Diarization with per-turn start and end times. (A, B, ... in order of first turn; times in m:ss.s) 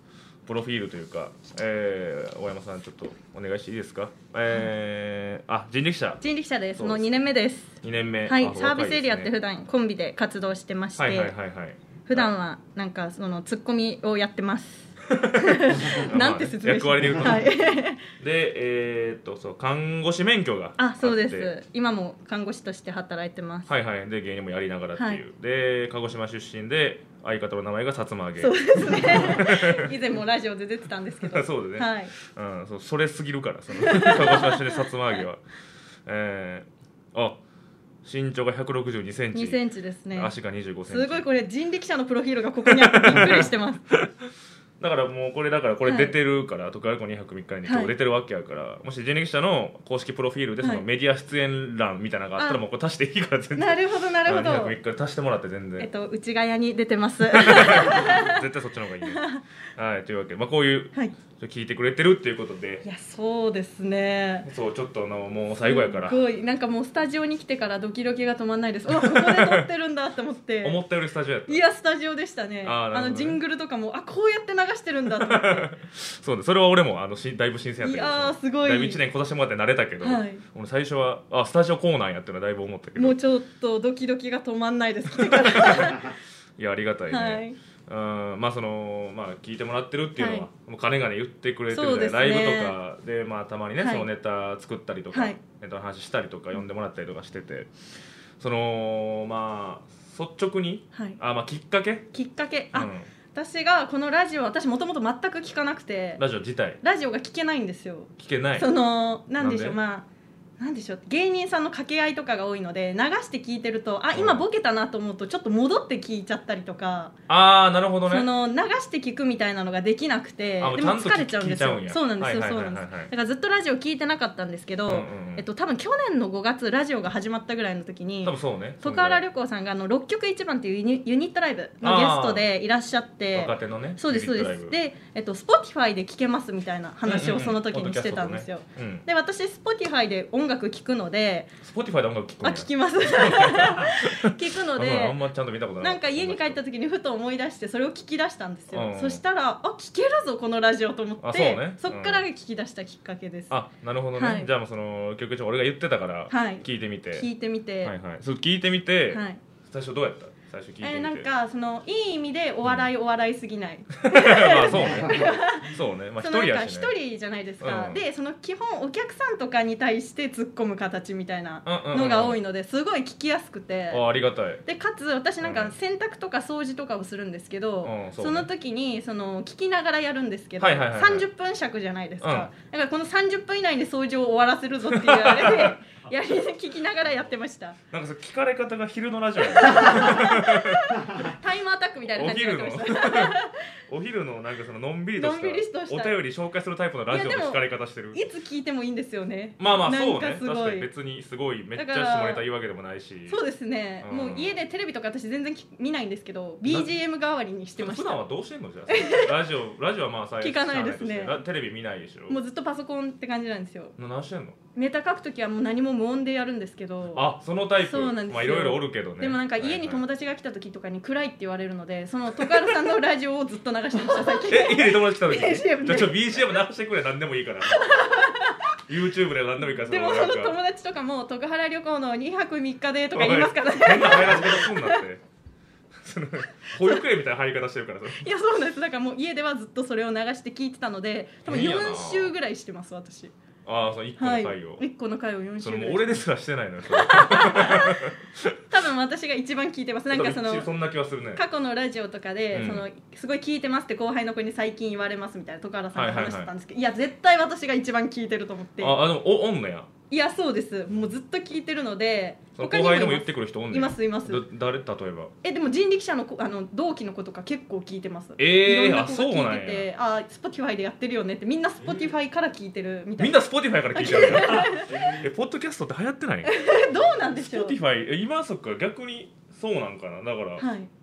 0:00.5-0:06.2 A
0:06.2-0:11.3 B
0:06.8-0:07.1 A
0:07.8-0:09.3 A
0:11.0-0:12.3 A
0:12.1-0:18.0 B
0:15.1-0:17.6 A
0:18.2-0:21.5 A
0:20.8-0:23.7 B
0:23.7-0:29.9 A
0:25.0-0:25.2 B
0:28.4-0:32.1 B
0:31.2-0:35.4 A
0:33.7-0:34.9 B
0:36.1-0:37.4 A
0:38.0-0:39.6 A
0:39.3-0:40.3 B
0:40.1-0:41.3 A
0:40.9-0:43.9 B
0:42.6-0:43.5 A
0:44.8-0:55.9 A
0:45.8-0:46.2 B
0:47.6-0:47.9 B
0:53.6-0:54.8 B
0:55.8-0:58.4 B
0:57.3-0:59.2 A
0:59.0-0:59.4 B
0:59.8-1:02.8 A
1:02.8-1:04.5 B
1:04.5-1:06.2 A
1:05.6-1:10.8 B
1:08.9-1:09.7 A
1:10.6-1:11.6 A
1:11.5-1:15.7 B
1:12.6-1:13.4 A
1:15.2-1:23.2 A
1:17.8-1:19.0 B
1:20.0-1:20.4 B
1:23.0-1:26.1 B
1:25.2-1:37.7 A
1:27.1-1:27.6 B
1:30.2-1:30.5 B
1:31.7-1:32.8 B
1:33.8-1:34.1 B
1:35.1-1:35.4 B
1:38.4-1:42.1 A
1:40.9-1:41.2 B
1:42.1-1:46.2 B
1:42.7-1:43.1 A
1:46.2-1:46.8 A
1:46.8-1:50.1 B
1:48.2-1:48.7 A
1:49.4-1:49.8 A
1:50.6-1:57.1 B
1:54.1-1:54.4 A
1:57.3-1:58.3 A
1:58.1-2:21.5 B
2:00.6-2:03.1 A
2:04.9-2:05.4 A
2:08.2-2:09.2 A
2:11.8-2:12.5 A
2:13.3-2:14.7 A
2:17.1-2:19.0 A
2:21.6-2:26.6 A
2:22.4-2:25.2 B
2:25.8-2:33.5 B
2:28.7-2:29.2 A
2:31.2-2:32.2 A
2:33.5-2:37.3 A
2:34.2-2:34.5 B
2:36.3-2:37.9 B
2:37.8-2:41.3 A
2:39.1-2:39.4 B
2:40.8-2:54.0 B
2:44.0-2:46.9 A
2:47.6-2:48.0 A
2:51.6-2:52.4 A
2:53.9-2:54.6 A
2:54.6-3:07.8 B
2:55.4-2:55.7 A
2:57.8-2:58.5 A
3:00.6-3:01.3 A
3:02.2-3:02.5 A
3:04.9-3:05.8 A
3:07.9-3:11.2 A
3:09.6-3:13.6 B
3:12.1-3:18.2 A
3:15.2-3:16.2 B
3:17.1-3:20.9 B
3:19.6-3:23.4 A
3:21.8-3:22.4 B
3:23.3-3:28.2 B
3:24.0-3:24.6 A
3:26.6-3:26.9 A
3:27.8-3:32.4 A
3:28.9-3:29.3 B
3:30.4-3:31.4 B
3:32.3-3:33.9 B
3:34.0-3:34.6 A
3:34.8-3:46.4 B
3:37.1-3:40.0 A
3:44.5-3:48.3 A
3:47.7-3:48.6 B
3:48.9-3:50.6 A
3:49.8-3:55.0 B
3:53.1-3:55.2 A
3:56.0-3:58.3 A
3:58.1-4:03.3 B
4:01.5-4:02.4 A
4:03.6-4:04.8 A
4:04.2-4:06.2 B
4:05.6-4:08.6 A
4:06.9-4:08.1 B
4:08.7-4:10.7 B
4:10.1-4:11.4 A
4:11.4-4:19.0 B
4:12.5-4:12.8 A
4:15.9-4:16.5 A
4:18.8-4:19.9 A
4:20.1-4:24.4 B
4:22.6-4:25.3 A
4:25.4-4:33.4 B
4:28.4-4:29.9 A
4:33.2-4:40.7 A
4:33.9-4:35.1 B
4:36.4-4:37.8 B
4:40.6-4:40.9 B